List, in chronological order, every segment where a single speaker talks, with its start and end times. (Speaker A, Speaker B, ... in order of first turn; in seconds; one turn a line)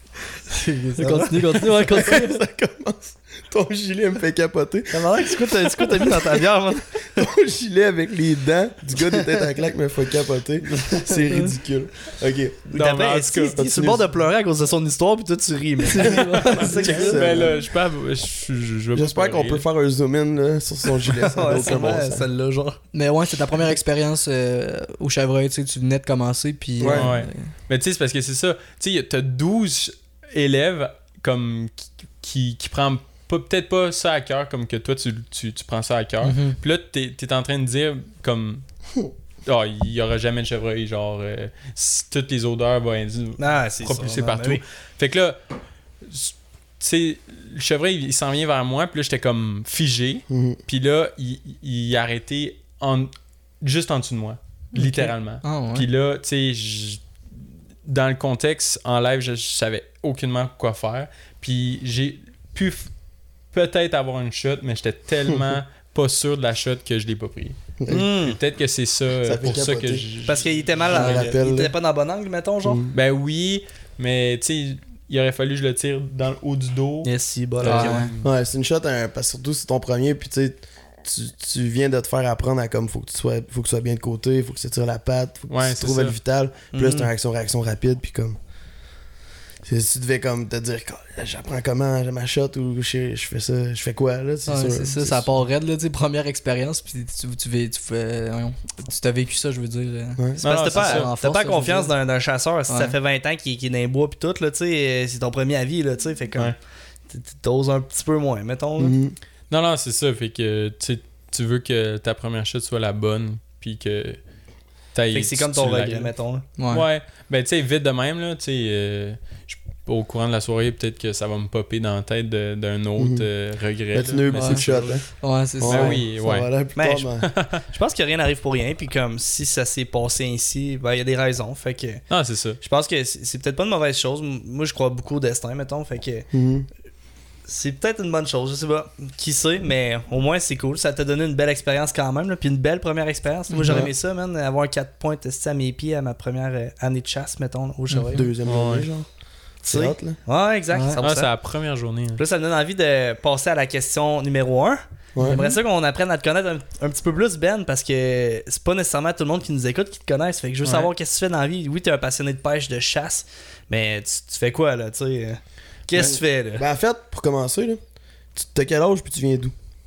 Speaker A: 0.5-2.4
Speaker B: 1.0-1.8
Speaker C: 2.0-6.5
Speaker B: 4.9-7.2
Speaker C: 7.2-12.6
Speaker B: 9.0-9.3
Speaker B: 12.7-17.5
Speaker D: 12.7-13.6
Speaker C: 13.6-14.1
Speaker A: 15.8-16.9
Speaker C: 16.1-17.6
Speaker D: 16.6-19.6
Speaker C: 18.9-22.2
Speaker B: 21.0-22.8
Speaker A: 22.9-27.5
Speaker C: 26.8-27.1
Speaker D: 26.9-38.7
Speaker A: 36.2-36.6
Speaker D: 39.5-45.4
Speaker B: 43.4-44.6
Speaker D: 46.0-57.0
Speaker C: 50.3-50.6
Speaker A: 54.7-55.9
Speaker D: 57.9-62.9
Speaker D: 63.5-71.3
Speaker C: 67.8-68.1
Speaker B: 67.9-68.4
Speaker C: 69.2-70.1
Speaker B: 70.3-72.8
Speaker C: 70.9-71.7
Speaker A: 70.9-71.2
Speaker C: 72.6-72.9
Speaker D: 72.9-78.3
Speaker B: 77.0-78.1
Speaker A: 77.6-78.1
Speaker C: 78.2-88.4
Speaker D: 85.5-86.2
Speaker B: 86.7-87.1
Speaker C: 89.6-95.3
Speaker A: 94.5-102.0
Speaker C: 100.2-100.4
Speaker D: 100.4-101.1
Speaker B: 100.4-106.6
Speaker A: 102.7-103.0
Speaker B: 107.1-109.0
Speaker C: 108.8-109.2
Speaker D: 109.5-114.2
Speaker D: 114.9-125.1
Speaker B: 115.1-116.4
Speaker A: 116.6-116.8
Speaker C: 123.0-123.3
Speaker C: 123.9-127.3
Speaker A: 124.3-126.0
Speaker D: 125.6-126.5
Speaker B: 126.8-132.1
Speaker D: 127.2-127.6
Speaker D: 132.1-132.6
Speaker B: 132.6-136.3
Speaker C: 136.3-136.7
Speaker B: 137.5-148.3
Speaker A: 143.5-143.9
Speaker A: 147.9-148.2
Speaker C: 148.1-149.1
Speaker D: 148.5-148.9
Speaker C: 149.6-150.2
Speaker B: 149.7-151.3
Speaker A: 150.7-151.0
Speaker D: 151.0-152.2
Speaker B: 152.2-166.7
Speaker A: 155.2-155.6
Speaker D: 160.6-160.9
Speaker C: 165.9-167.8
Speaker C: 168.3-169.6